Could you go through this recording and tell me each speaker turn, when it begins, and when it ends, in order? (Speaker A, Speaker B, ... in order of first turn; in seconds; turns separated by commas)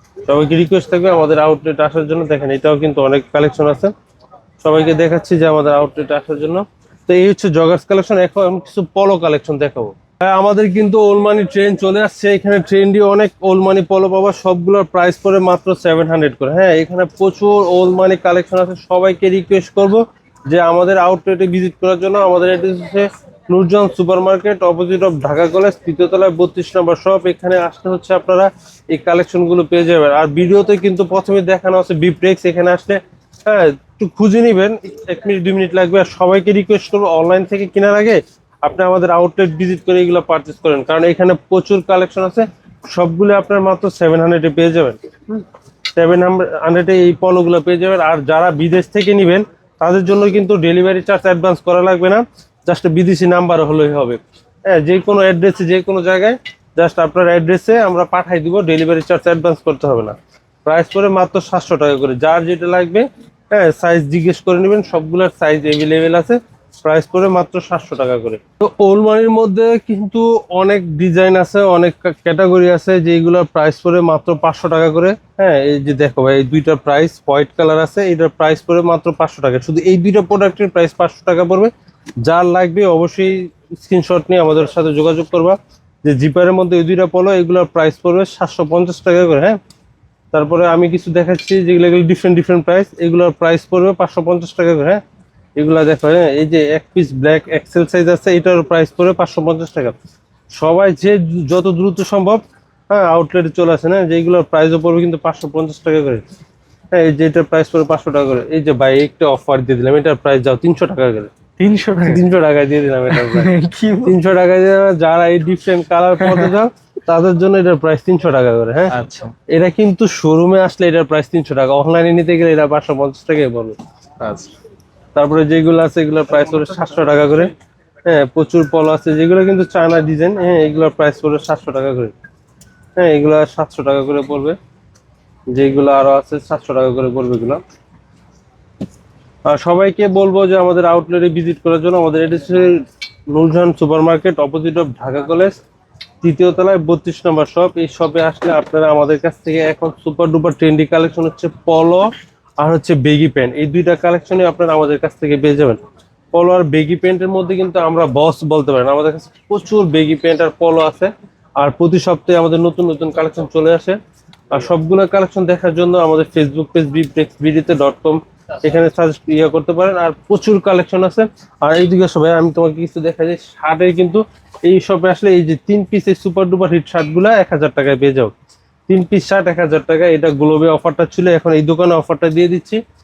Speaker A: 0.2-3.9, Speaker A: 4.6-45.4, Speaker A: 46.0-81.7, Speaker A: 82.2-89.6, Speaker A: 90.3-95.0, Speaker A: 95.6-99.9, Speaker A: 100.5-106.2, Speaker A: 106.9-111.3, Speaker B: 111.6-112.3, Speaker A: 112.0-113.5, Speaker B: 113.1-114.2, Speaker A: 114.0-118.9, Speaker B: 116.2-116.5, Speaker B: 118.9-119.3, Speaker A: 119.5-123.8, Speaker B: 124.2-124.5, Speaker A: 125.1-127.5, Speaker A: 128.1-132.1, Speaker A: 132.9-134.6, Speaker A: 135.5-137.6, Speaker A: 139.5-145.6, Speaker A: 146.2-155.8, Speaker A: 156.3-164.0, Speaker A: 164.5-178.3, Speaker A: 178.9-182.8